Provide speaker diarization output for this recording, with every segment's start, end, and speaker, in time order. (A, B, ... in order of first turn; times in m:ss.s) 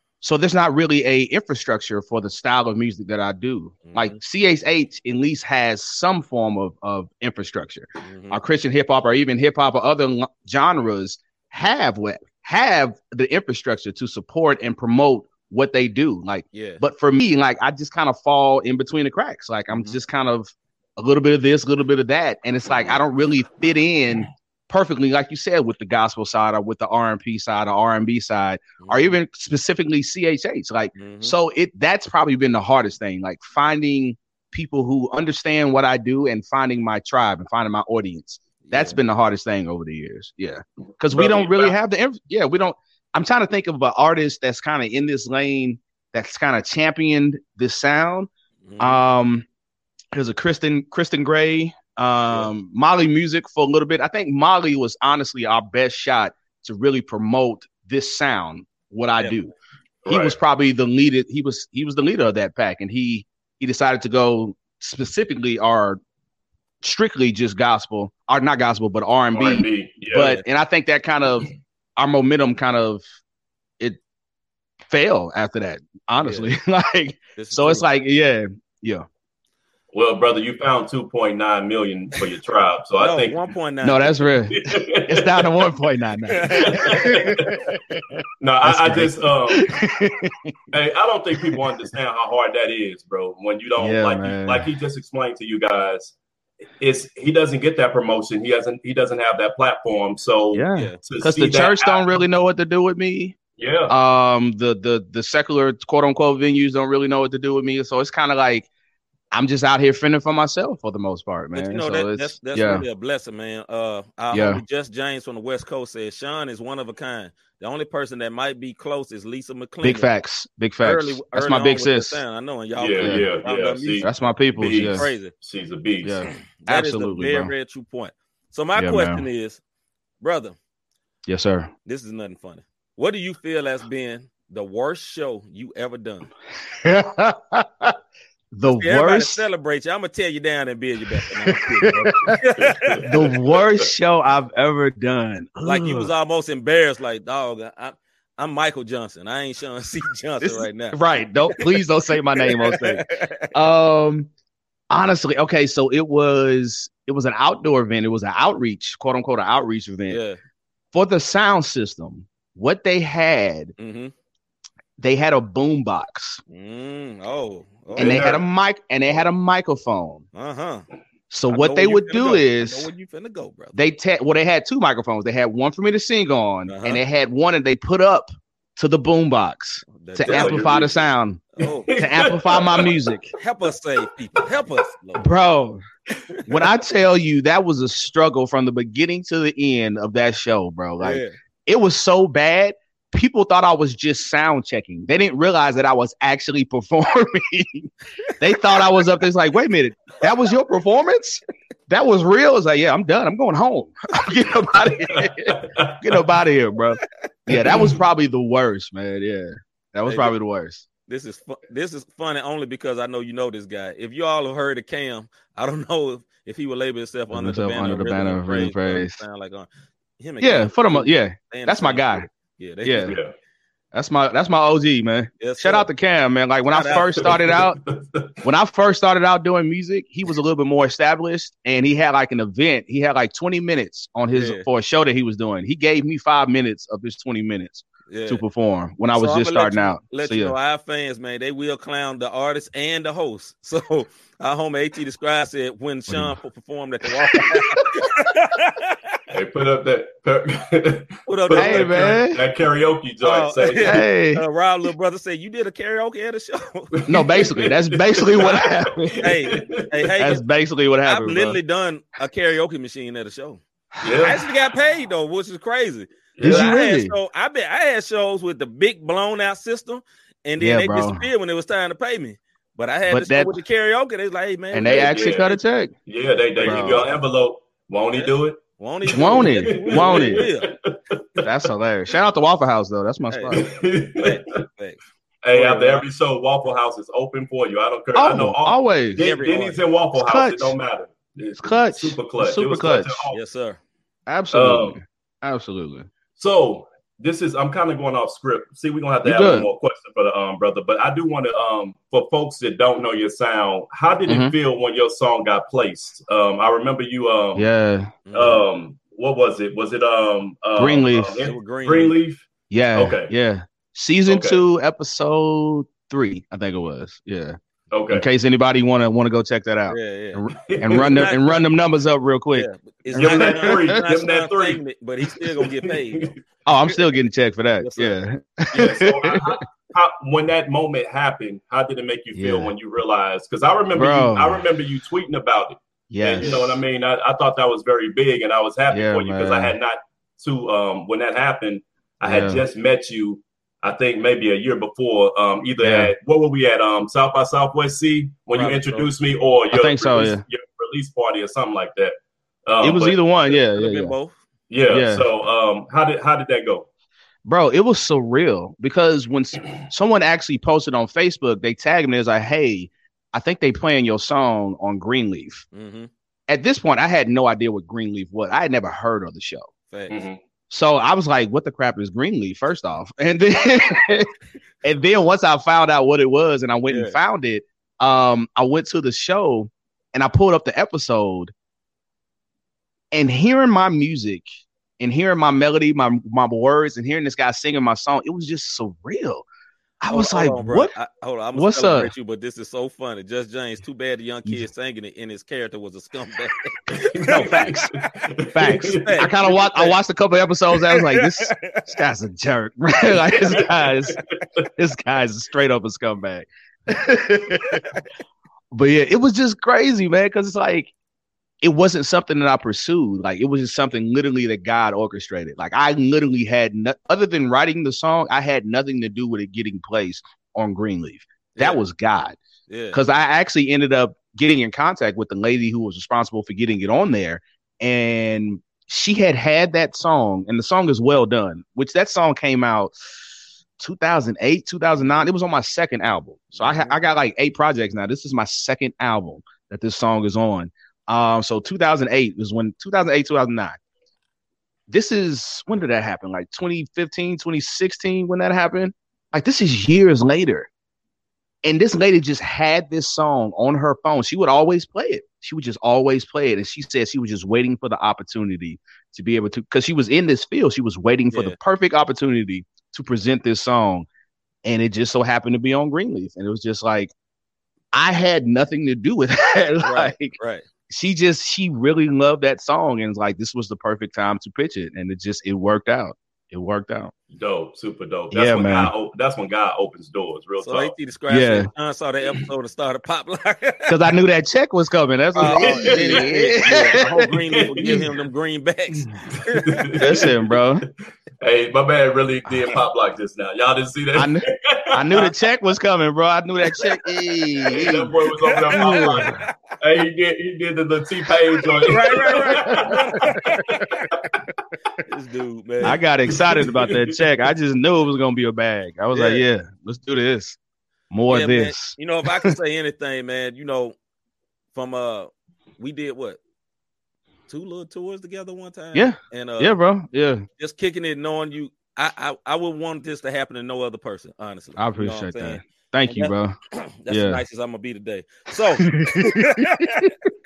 0:00.2-0:48.3 A
0:03.8-0:04.2 B
0:08.0-0:08.4 B
0:16.5-0:16.8 B
0:19.7-0:20.0 B
0:28.8-0:29.2 B
0:31.0-0:31.4 B
0:38.6-0:39.0 B
0:41.1-0:41.7 C
0:48.6-0:49.0 B
0:48.8-0:49.5 A
0:50.1-0:59.5 A
1:00.0-1:00.4 C
1:00.1-1:06.0 A
1:06.8-1:13.0 A
1:09.3-1:10.3 C
1:10.1-1:10.4 B
1:14.9-1:19.1 A
1:16.2-1:16.5 B
1:17.4-1:17.9 B
1:19.9-1:23.5 C
1:23.0-1:24.2 B
1:23.8-1:30.5 A
1:24.6-1:25.5 C
1:26.3-1:27.3 B
1:26.5-1:27.5 C
1:28.4-1:29.7 C
1:30.7-1:36.2 C
1:33.8-1:34.7 A
1:36.8-1:42.0 C
1:40.5-1:43.4 A
1:43.6-1:43.9 C
1:43.9-1:48.7 A
1:49.3-1:52.8 A
1:51.6-2:00.1 B
1:54.3-1:54.6 A
1:59.8-2:02.2 A
2:00.8-2:04.1 B
2:02.8-2:06.2 C
2:03.0-2:03.2 A
2:04.0-2:05.1 A
2:05.0-2:05.3 B
2:06.0-2:07.5 A
2:06.6-2:09.6 B
2:08.8-2:09.2 A
2:10.2-2:10.6 B
2:11.3-2:11.7 A
2:11.9-2:16.3 B
2:16.8-2:18.0 A
2:18.5-2:19.4 A
2:18.7-2:23.0 B
2:21.2-2:22.4 A
2:22.6-2:23.8 C
2:23.0-2:26.1 A
2:25.6-2:31.8 B
2:30.4-2:34.3 A
2:32.4-2:33.5 B
2:34.9-2:40.2 A
2:40.1-2:40.4 B
2:40.9-2:43.7 A
2:43.8-2:44.1 B
2:45.0-2:46.4 A
2:46.5-2:48.3 B
2:48.0-2:48.4 C
2:48.0-2:50.2 A
2:50.3-2:50.9 B
2:51.3-2:52.9 A
2:51.5-2:53.8 B
2:53.7-3:01.4 A
2:56.7-2:57.0 B
3:00.0-3:00.9 B
3:00.2-3:00.9 C
3:01.5-3:02.0 B
3:01.6-3:02.9 C
3:02.0-3:03.3 A
3:03.4-3:05.3 B
3:05.2-3:05.8 A
3:06.5-3:30.9 A
3:11.0-3:11.3 B
3:25.2-3:26.2 C
3:27.6-3:27.9 C
3:30.1-3:30.4 B
3:31.1-3:39.7 B
3:37.3-3:39.2 A
3:40.2-3:43.2 B
3:40.4-3:42.3 A
3:42.8-3:43.2 A
3:43.0-3:43.3 C
3:43.9-3:47.8 A
3:45.4-3:45.9 B
3:46.7-3:47.4 B
3:47.3-3:48.3 C
3:48.4-4:00.6 A
3:54.3-3:54.6 B
3:58.1-3:58.4 B
3:59.1-4:09.0 B
4:06.1-4:06.4 A
4:07.1-4:07.6 A
4:09.3-4:14.1 C
4:11.3-4:12.2 B
4:11.5-4:12.4 A
4:13.2-4:16.9 B
4:13.8-4:14.4 A
4:17.0-4:19.8 C
4:17.1-4:19.3 A
4:18.4-4:18.6 B
4:19.2-4:20.4 B
4:20.2-4:21.6 A
4:21.0-4:23.6 B
4:24.0-4:24.4 C
4:24.2-4:35.6 B
4:26.4-4:26.7 C
4:26.4-4:27.2 A
4:30.6-4:31.3 A
4:33.1-4:33.6 A
4:34.7-4:35.9 A
4:34.8-4:35.5 C
4:36.1-4:41.5 C
4:36.6-4:37.0 B
4:36.6-4:37.1 A
4:38.1-4:40.8 B
4:39.1-4:40.4 A
4:41.4-4:43.8 A
4:43.3-4:43.6 B
4:43.6-4:44.6 C
4:44.2-4:46.0 B
4:45.4-4:53.4 C
4:48.2-4:49.2 A
4:49.2-4:49.8 B
4:50.2-4:50.8 A
4:51.6-4:53.3 A
4:53.3-4:53.8 B
4:54.3-4:56.1 A
4:54.5-4:55.0 C
4:56.4-5:07.7 C
4:59.2-4:59.7 A
5:04.3-5:04.6 A
5:07.6-5:08.2 A
5:08.3-5:08.6 B
5:08.3-5:13.3 C
5:10.8-5:11.5 A
5:11.4-5:12.2 B
5:12.7-5:17.6 A
5:14.3-5:14.6 C
5:17.9-5:18.3 C
5:18.1-5:23.9 A
5:19.9-5:21.6 B
5:20.5-5:21.2 C
5:22.5-5:26.3 B
5:23.2-5:26.4 C
5:26.7-5:29.6 A
5:27.8-5:28.2 B
5:28.7-5:53.2 C
5:32.3-5:32.7 A
5:33.9-5:34.6 A
5:36.1-5:36.8 A
5:38.9-5:39.8 A
5:42.2-5:42.6 A
5:45.8-5:46.1 A
5:48.5-5:49.1 B
5:49.7-5:50.4 A
5:52.8-5:54.1 A
5:53.4-5:54.4 B
5:54.7-5:56.9 C
5:54.9-5:55.2 A
5:57.4-6:05.6 A
6:05.7-6:06.1 B
6:06.5-6:09.7 A
6:10.1-6:10.4 C
6:10.7-6:14.3 A
6:14.8-6:21.5 A
6:16.9-6:17.2 B
6:23.1-6:24.4 A
6:25.0-6:29.5 A
6:30.0-6:30.9 A
6:30.1-6:38.1 B
6:31.6-6:32.1 A
6:36.9-6:39.3 C
6:37.2-6:37.9 A
6:38.5-6:44.2 A
6:38.6-6:40.0 B
6:40.8-6:41.9 B
6:44.2-6:44.7 C
6:44.8-6:47.8 A
6:48.7-6:50.9 A
6:51.6-7:02.4 A
7:01.6-7:01.8 B
7:02.7-7:03.0 B
7:02.9-7:13.0 A
7:13.8-7:23.8 A
7:16.5-7:17.0 B
7:24.9-7:30.7 A
7:31.6-7:44.1 A
7:41.3-7:41.6 B
7:44.6-7:47.1 A
7:47.9-7:50.4 A
7:49.8-7:50.6 B
7:50.9-7:57.1 A
7:57.3-8:01.0 C
7:58.3-7:58.9 A
8:00.6-8:03.9 B
8:01.3-8:01.7 A
8:03.9-8:07.3 A
8:05.4-8:09.8 B
8:05.4-8:06.8 C
8:07.5-8:08.1 C
8:09.5-8:10.3 C
8:10.0-8:10.9 A
8:11.4-8:15.3 C
8:14.2-8:18.1 A
8:17.7-8:23.0 C
8:18.3-8:19.5 B
8:18.7-8:19.4 A
8:21.9-8:24.1 B
8:22.5-8:23.0 A
8:25.1-8:26.0 B
8:25.8-8:30.6 A
8:25.9-8:27.2 C
8:29.1-8:29.4 B
8:31.1-8:32.5 A
8:31.3-8:34.0 B
8:34.7-8:36.4 B
8:37.5-8:39.8 B
8:38.9-8:40.4 A
8:40.6-8:50.1 B
8:44.8-8:46.6 A
8:47.1-8:47.4 A
8:48.8-8:50.0 A